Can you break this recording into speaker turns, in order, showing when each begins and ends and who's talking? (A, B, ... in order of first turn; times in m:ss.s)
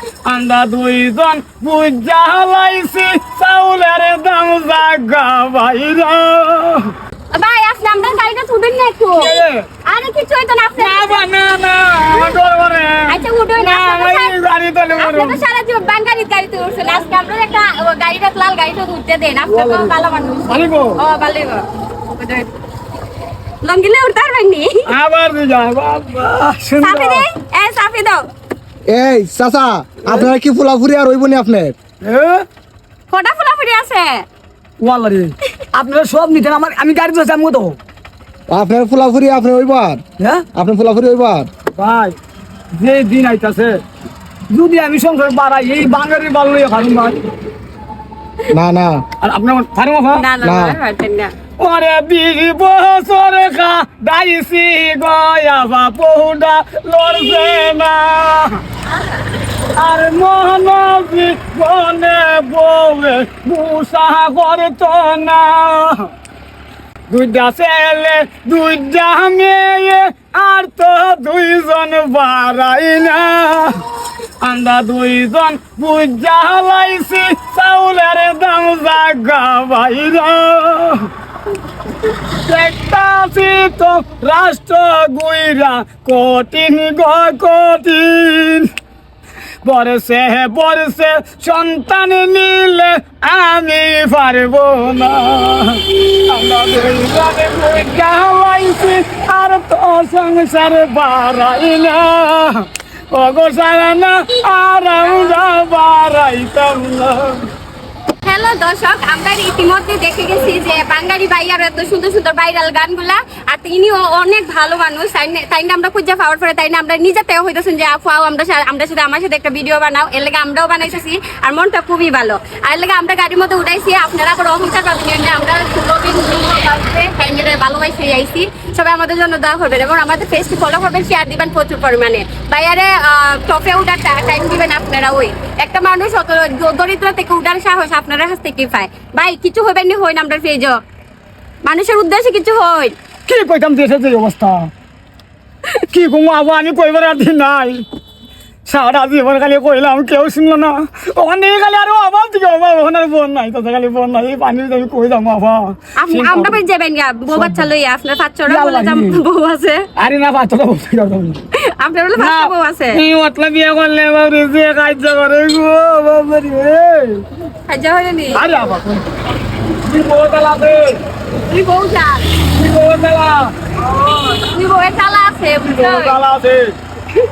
0:00.2-0:06.9 A
0:07.3-0:11.2 B
0:09.1-0:09.6 A
0:10.8-0:15.4 A
0:12.1-0:12.4 B
0:13.1-0:14.3 B
0:14.9-0:22.5 B
0:19.5-0:19.9 A
0:20.5-0:21.0 A
0:23.6-0:24.8 B
0:24.8-0:27.2 A
0:26.8-0:28.2 B
0:28.9-0:31.7 C
0:32.0-0:32.4 A
0:33.1-0:34.2 B
0:34.8-0:37.8 A
0:38.5-0:40.0 C
0:40.2-0:40.4 A
0:40.5-0:41.5 C
0:41.7-0:42.2 A
0:42.8-0:43.8 A
0:44.5-0:47.2 A
0:48.5-0:49.0 C
0:49.2-0:50.2 A
0:50.1-0:51.3 B
0:50.4-0:50.8 C
0:51.6-0:58.6 A
0:58.9-0:59.2 B
0:59.8-1:06.1 A
1:07.1-1:13.8 A
1:14.4-1:21.1 A
1:22.4-1:28.7 A
1:29.6-1:47.5 A
1:48.2-2:20.8 B
2:21.6-2:22.9 B
2:23.2-2:24.7 A
2:25.9-2:27.8 A
2:28.6-2:36.6 A
2:36.0-2:39.8 B
2:37.3-2:37.7 A
2:38.5-2:39.2 A
2:40.0-2:41.4 A
2:41.8-2:43.0 B
2:42.2-2:47.2 A
2:47.7-2:48.4 B
2:48.3-2:49.1 A
2:49.7-2:50.9 A
2:51.5-2:52.3 B
2:52.5-2:53.5 A
2:53.9-2:56.2 B
2:55.6-2:56.7 A